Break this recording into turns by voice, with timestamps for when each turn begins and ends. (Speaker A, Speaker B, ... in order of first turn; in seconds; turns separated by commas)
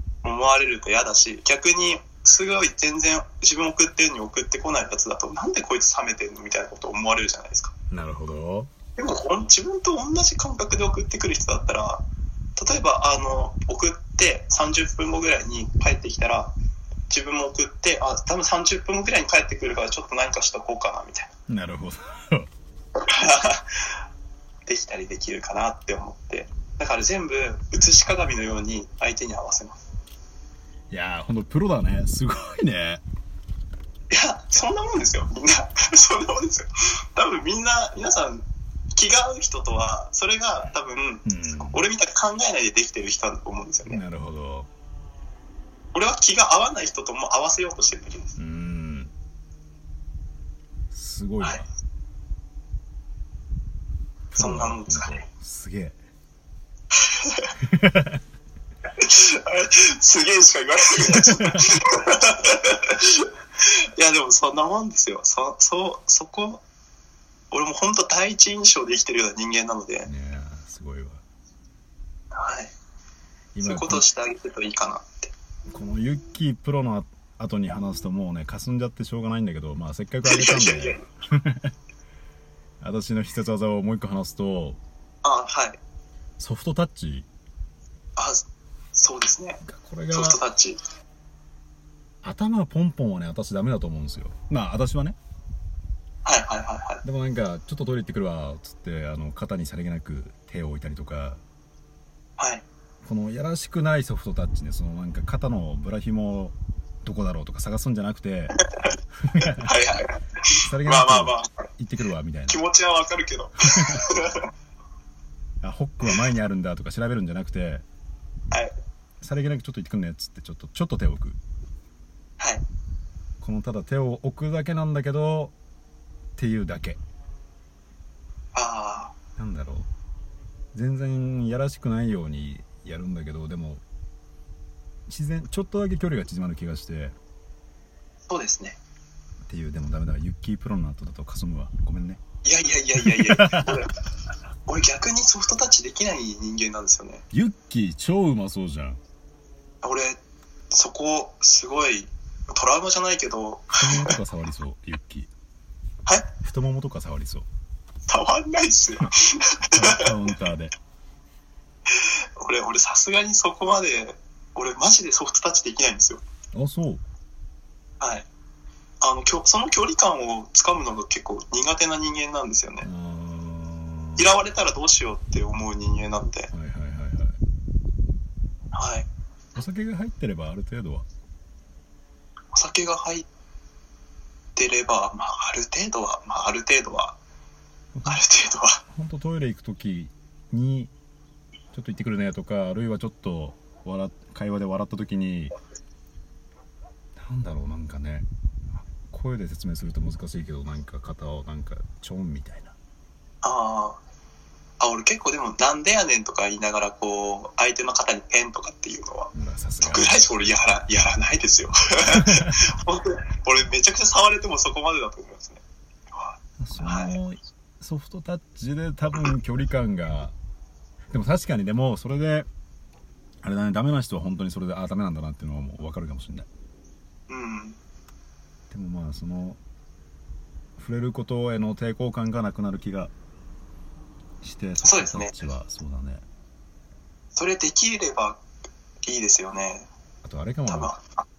Speaker A: 0.2-7.7, Speaker B: 7.9-8.7, Speaker A: 9.0-12.0, Speaker A: 12.6-16.5, Speaker A: 17.1-21.3, Speaker B: 21.5-22.5, Speaker A: 23.0-23.8, Speaker A: 24.7-29.8, Speaker B: 30.9-33.0, Speaker A: 34.1-44.0, Speaker B: 41.2-41.8, Speaker B: 43.9-44.7, Speaker A: 45.9-48.3, Speaker B: 48.4-49.1, Speaker B: 50.9-51.7, Speaker B: 54.3-56.0, Speaker A: 54.4-55.2, Speaker A: 57.0-57.5, Speaker B: 57.6-58.2, Speaker A: 59.0-66.6, Speaker B: 61.1-61.6, Speaker A: 67.5-70.1, Speaker B: 70.0-71.2, Speaker A: 72.3-72.7, Speaker B: 73.5-74.0, Speaker A: 73.6-75.3, Speaker B: 75.7-81.7, Speaker A: 80.2-81.0, Speaker B: 82.8-84.8, Speaker A: 85.2-85.8, Speaker B: 86.4-87.3, Speaker A: 88.2-89.6, Speaker B: 89.6-90.4, Speaker A: 90.1-90.8, Speaker B: 92.2-95.2, Speaker A: 96.2-97.0, Speaker B: 97.0-101.4, Speaker A: 102.4-102.6, Speaker B: 103.0-108.6, Speaker A: 108.5-108.9, Speaker B: 109.2-109.7, Speaker A: 109.6-111.6, Speaker B: 110.6-112.6, Speaker A: 112.5-114.5, Speaker B: 113.7-114.0, Speaker B: 115.6-117.8, Speaker B: 119.2-121.4, Speaker A: 122.4-122.6, Speaker B: 123.4-125.5, Speaker B: 126.4-127.0, Speaker A: 128.5-129.1, Speaker B: 129.3-129.9, Speaker B: 130.7-133.8, Speaker B: 135.1-137.2, Speaker A: 138.3-138.8, Speaker B: 139.4-142.2, Speaker A: 142.4-143.9, Speaker B: 143.0-143.7, Speaker A: 144.7-147.2, Speaker B: 147.3-149.0, Speaker A: 149.8-150.2, Speaker A: 150.7-154.2, Speaker B: 153.7-155.3, Speaker A: 156.1-156.3, Speaker B: 156.4-157.4, Speaker A: 158.1-160.1, Speaker B: 159.7-160.7, Speaker A: 161.9-166.2, Speaker B: 166.5-167.0, Speaker A: 168.0-168.3, Speaker A: 169.0-172.9, Speaker B: 172.8-174.3, Speaker A: 174.2-176.5, Speaker B: 176.5-177.4, Speaker A: 178.7-179.1, Speaker B: 179.6-181.1, Speaker A: 182.5-183.3, Speaker A: 184.6-187.2, Speaker B: 187.9-188.2, Speaker A: 188.1-188.8, Speaker B: 188.9-190.9, Speaker B: 191.7-195.5, Speaker B: 197.2-198.3, Speaker B: 198.8-202.7, Speaker A: 203.4-204.0, Speaker A: 204.8-209.3, Speaker B: 209.3-210.2, Speaker A: 209.8-215.6, Speaker B: 212.2-212.5, Speaker A: 216.1-217.2, Speaker B: 216.6-220.3, Speaker B: 221.1-222.5, Speaker B: 223.4-226.5, Speaker A: 227.3-227.8, Speaker B: 228.7-229.6, Speaker B: 230.8-233.1, Speaker B: 234.4-236.2, Speaker A: 234.8-235.3, Speaker A: 237.3-238.4, Speaker A: 239.0-239.9, Speaker B: 240.2-240.9, Speaker A: 240.7-241.2